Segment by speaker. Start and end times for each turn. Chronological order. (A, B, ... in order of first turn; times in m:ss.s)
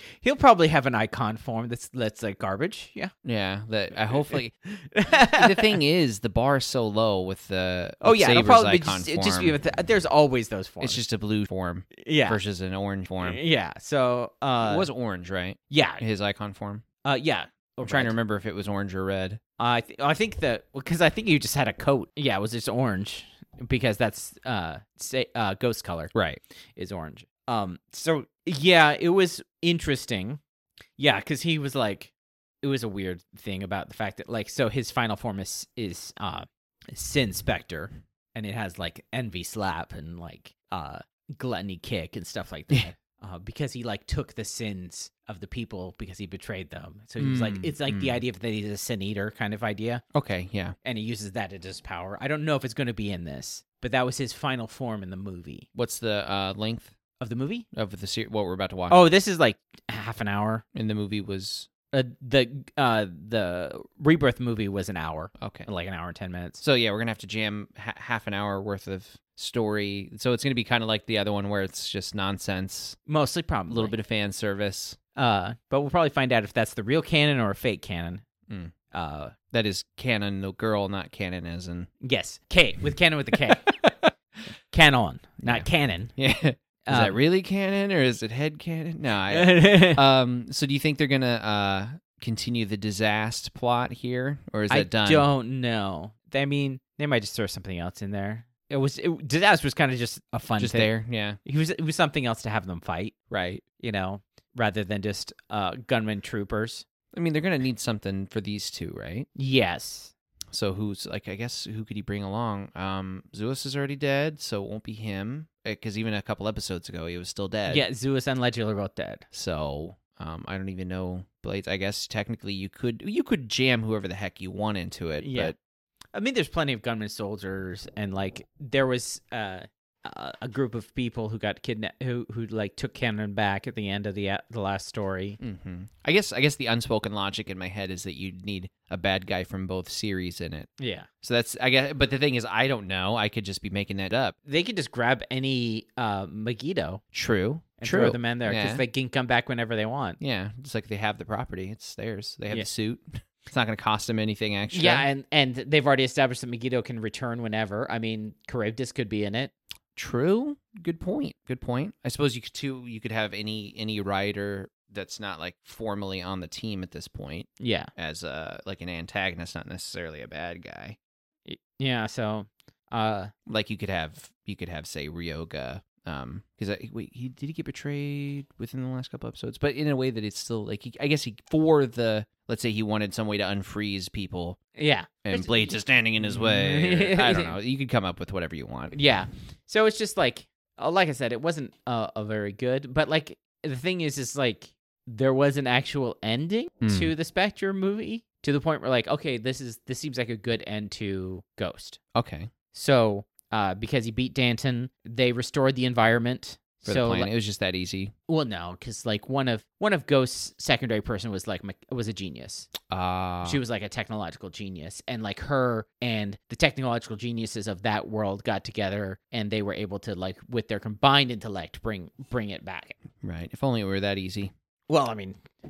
0:00.2-0:03.1 A
0:03.2-0:04.5 B
0:04.7-0:05.8 A
0:05.3-0:09.6 B
0:08.0-0:11.0 A
0:10.8-0:13.4 B
0:12.0-0:12.4 A
0:13.2-0:14.9 A
0:14.6-0:16.8 B
0:15.7-0:16.0 A
0:17.0-0:18.2 A
0:17.8-0:19.4 B
0:19.6-0:26.1 A
0:26.1-0:26.4 B
0:26.8-0:30.4 A
0:31.0-0:50.0 A
0:47.2-0:48.2 B
0:50.1-0:50.8 B
0:50.8-0:55.7 A
0:55.8-0:56.9 B
0:57.2-0:57.7 A
0:57.7-0:59.0 B
0:58.9-1:00.6 A
1:00.7-1:01.7 B
1:01.9-1:06.6 A
1:05.4-1:05.7 B
1:06.6-1:13.0 B
1:13.1-1:13.9 A
1:13.7-1:15.0 B
1:15.2-1:18.2 A
1:18.5-1:18.8 B
1:18.9-1:19.4 A
1:19.5-1:21.9 B
1:22.0-1:23.7 A
1:24.7-1:26.1 A
1:26.2-1:35.3 B
1:26.9-1:27.2 A
1:29.3-1:30.0 A
1:34.7-1:40.9 A
1:40.6-1:41.4 B
1:41.4-1:43.2 A
1:43.3-1:43.6 B
1:43.8-1:46.8 A
1:47.1-1:49.3 B
1:49.4-1:50.1 A
1:50.5-1:57.9 B
1:57.7-1:59.2 A
1:59.3-2:05.6 B
2:05.2-2:05.5 A
2:06.1-2:15.4 A
2:15.4-2:20.7 B
2:20.8-2:21.1 A
2:21.2-2:24.4 B
2:24.5-2:27.0 A
2:27.1-2:28.8 B
2:27.8-2:30.2 A
2:30.2-2:35.1 B
2:34.7-2:39.5 A
2:40.0-2:51.0 B
2:47.6-2:47.9 A
2:51.5-2:53.3 A
2:53.5-3:04.6 B
3:04.8-3:07.6 A
3:05.2-3:09.0 B
3:08.9-3:22.0 A
3:16.8-3:17.1 B
3:22.1-3:22.5 B
3:22.7-3:27.3 A
3:26.8-3:28.1 B
3:28.3-3:32.7 A
3:32.9-3:33.6 B
3:33.4-3:43.0 A
3:43.2-3:44.5 B
3:44.9-3:45.4 A